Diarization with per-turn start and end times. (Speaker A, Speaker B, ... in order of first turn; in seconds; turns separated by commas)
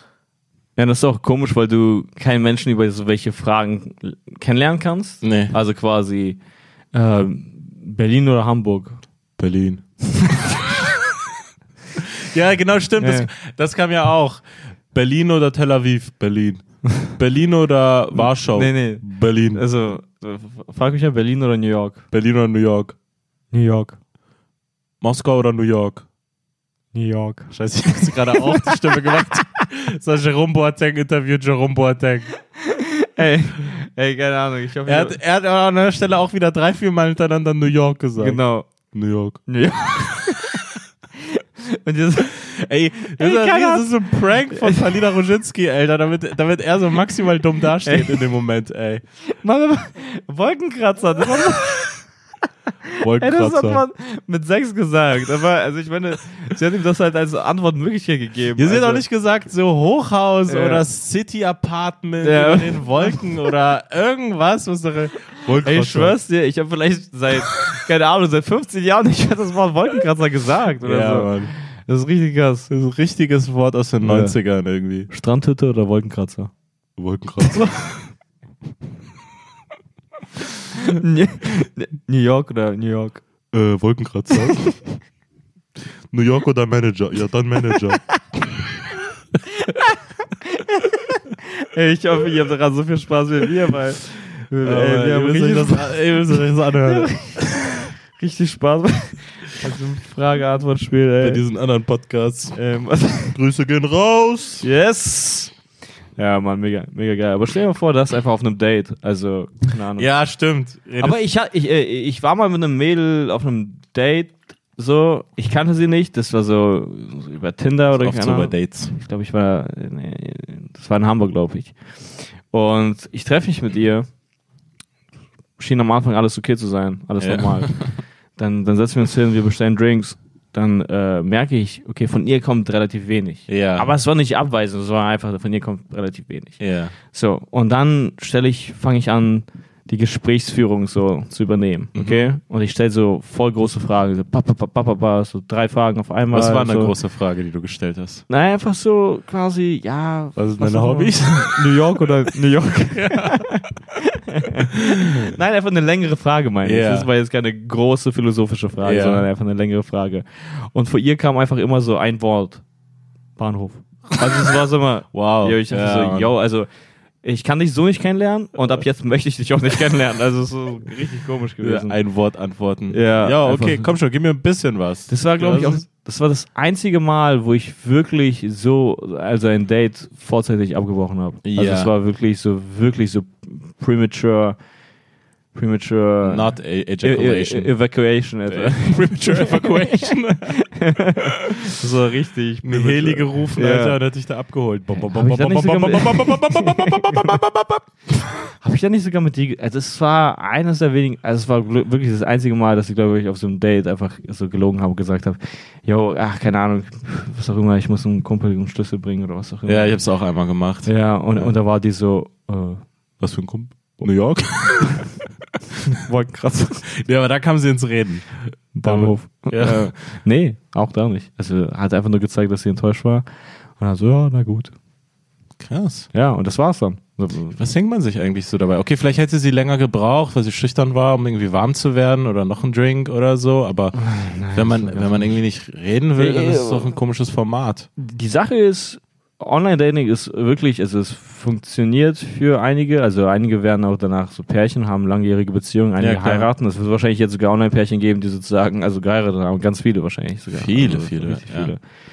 Speaker A: 0.8-6.4, Speaker B: 5.2-5.5, Speaker A: 6.9-9.0, Speaker B: 9.4-10.3, Speaker B: 12.0-16.6, Speaker A: 13.0-13.3, Speaker B: 17.1-19.6, Speaker A: 18.5-22.0, Speaker B: 22.1-22.9, Speaker A: 23.5-24.0, Speaker B: 25.0-26.1, Speaker A: 26.9-29.6, Speaker B: 27.5-32.3, Speaker A: 32.6-35.2, Speaker B: 34.9-38.4, Speaker A: 38.2-38.7, Speaker B: 38.9-39.4, Speaker A: 39.5-40.7, Speaker A: 41.2-42.4, Speaker B: 42.3-49.0, Speaker A: 43.2-44.8, Speaker A: 47.8-48.2, Speaker A: 49.4-52.0, Speaker A: 52.9-59.0, Speaker B: 53.0-53.8, Speaker B: 58.6-66.2, Speaker A: 60.5-60.8, Speaker A: 62.2-63.2, Speaker A: 65.6-72.7, Speaker B: 70.8-71.5, Speaker B: 72.7-75.1, Speaker A: 74.0-74.3, Speaker A: 75.1-76.5, Speaker B: 77.0-78.0, Speaker A: 77.4-77.8, Speaker A: 80.7-83.2, Speaker B: 83.5-84.8, Speaker A: 84.5-84.7, Speaker B: 86.1-88.0, Speaker A: 89.5-96.0, Speaker B: 94.6-97.3, Speaker A: 96.8-101.4, Speaker B: 101.2-102.6, Speaker A: 102.5-103.4, Speaker B: 103.3-104.7, Speaker A: 104.6-105.5, Speaker A: 106.2-110.1, Speaker B: 110.0-111.2, Speaker A: 111.0-121.7, Speaker B: 117.9-118.9, Speaker A: 122.5-124.1, Speaker A: 125.6-127.7, Speaker B: 127.2-128.0, Speaker A: 128.3-146.9, Speaker B: 133.5-133.9, Speaker B: 136.6-136.9, Speaker B: 141.9-142.3, Speaker B: 146.3-148.2, Speaker A: 148.3-162.6, Speaker B: 150.3-151.8, Speaker B: 152.9-153.4, Speaker B: 156.6-157.1, Speaker B: 158.8-159.3, Speaker A: 163.4-166.7, Speaker B: 165.1-166.3, Speaker A: 167.2-171.9, Speaker B: 171.6-175.8, Speaker A: 172.9-173.9, Speaker A: 175.1-184.6, Speaker B: 181.4-181.9, Speaker A: 185.5-194.0, Speaker B: 186.2-187.7, Speaker B: 188.5-190.6, Speaker B: 191.2-191.7, Speaker B: 192.6-198.2, Speaker A: 194.9-197.3, Speaker A: 198.6-210.0, Speaker B: 209.7-211.5, Speaker A: 210.8-212.8, Speaker B: 213.2-215.1, Speaker A: 214.8-215.1, Speaker A: 215.9-216.9, Speaker B: 216.9-219.9, Speaker A: 218.7-223.2, Speaker A: 223.8-224.7, Speaker B: 225.6-226.1, Speaker A: 226.1-227.6, Speaker B: 227.5-237.9, Speaker A: 233.9-235.4, Speaker A: 236.2-236.9, Speaker A: 238.0-251.8, Speaker B: 246.0-246.5, Speaker B: 250.5-251.7